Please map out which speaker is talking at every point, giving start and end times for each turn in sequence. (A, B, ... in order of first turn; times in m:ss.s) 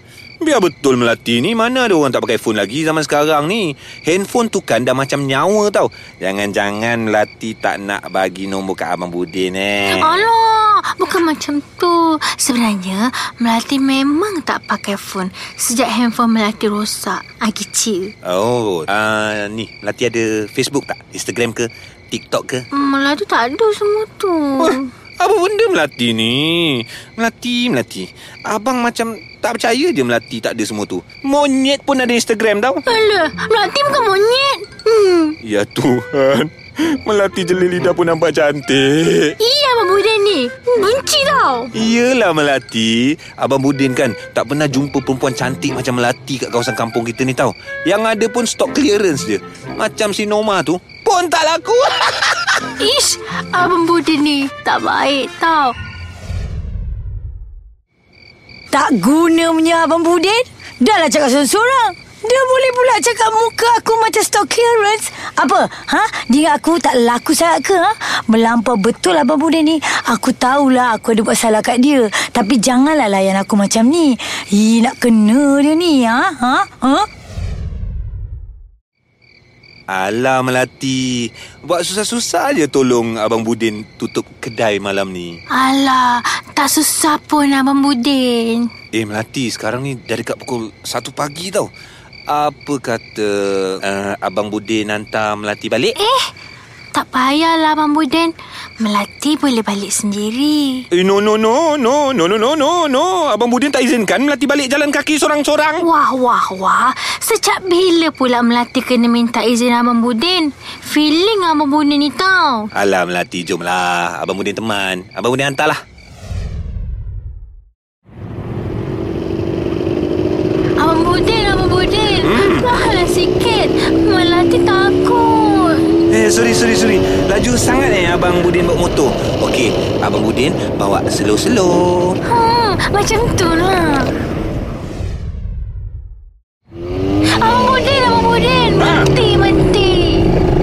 0:00.4-0:10.3 A
0:09.9-0:18.1 B
0:18.2-0:22.6 A
0:22.7-0:24.9 B
0:24.6-0:32.8 A
0:32.8-0:35.4 B
0:35.4-0:39.3 A
0:39.4-0:41.7 B
0:41.7-0:52.6 A
0:52.8-0:55.7 B
0:58.7-1:17.1 C
1:19.9-1:25.4 A
1:25.5-1:28.7 B
1:28.9-1:31.7 A
1:32.3-1:36.0 A
1:36.0-1:36.3 B
1:36.9-1:40.8 B
1:40.9-1:45.8 A
1:45.8-1:52.7 B
1:52.7-1:55.8 A
2:00.8-2:05.8 B
2:02.2-2:02.6 A
2:06.1-2:12.2 A
2:12.2-2:14.1 B
2:17.4-2:20.3 B